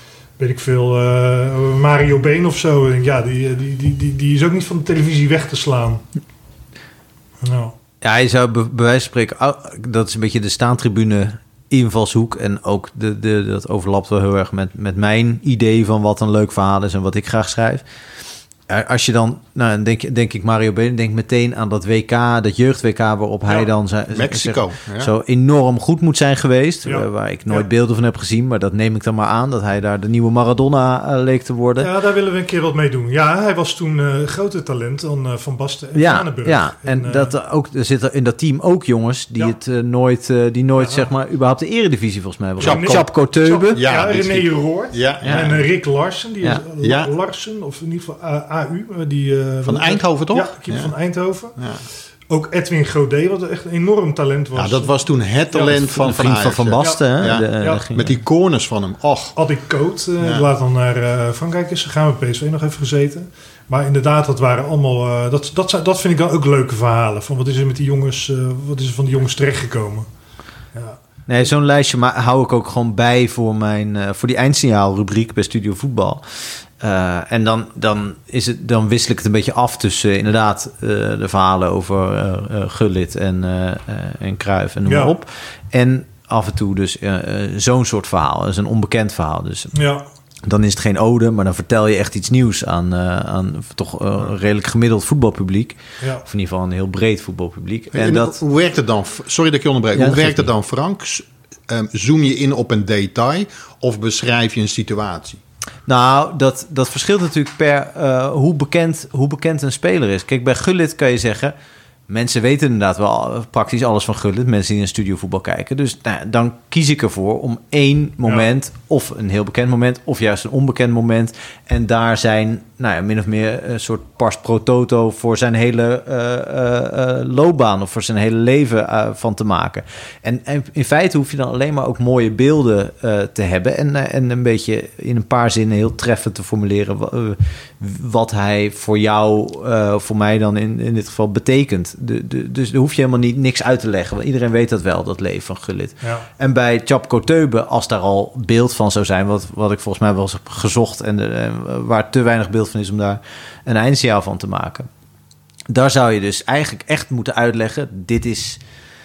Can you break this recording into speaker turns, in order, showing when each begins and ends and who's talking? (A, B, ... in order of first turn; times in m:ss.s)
0:00.4-0:06.0 A
0:07.4-0:07.7 A
0:08.0-0:17.8 B
0:18.7-0:31.9 B
0:24.1-0:25.1 C
0:26.8-0:27.7 A
0:31.8-0:37.3 A
0:35.9-0:43.8 B
0:40.8-0:41.1 A
0:42.6-0:51.6 A
0:42.6-0:43.0 C
0:43.8-0:45.6 C
0:45.2-0:45.5 B
0:46.8-0:47.1 C
0:49.6-0:50.9 C
0:51.6-0:51.8 C
0:52.3-0:54.9 A
0:54.6-0:59.4 C
0:55.5-0:55.9 A
0:55.8-0:58.1 B
0:56.8-0:57.8 A
0:59.4-1:10.1 A
1:00.2-1:00.5 C
1:10.7-1:11.0 A
1:11.3-1:29.7 B
1:24.8-1:25.1 A
1:29.7-1:30.0 A
1:30.4-1:38.4 B
1:36.0-1:36.2 A
1:37.9-1:45.4 C
1:39.9-1:40.5 B
1:45.9-1:51.5 B
1:52.1-2:34.9 B
2:26.0-2:26.3 A
2:35.7-2:38.6 B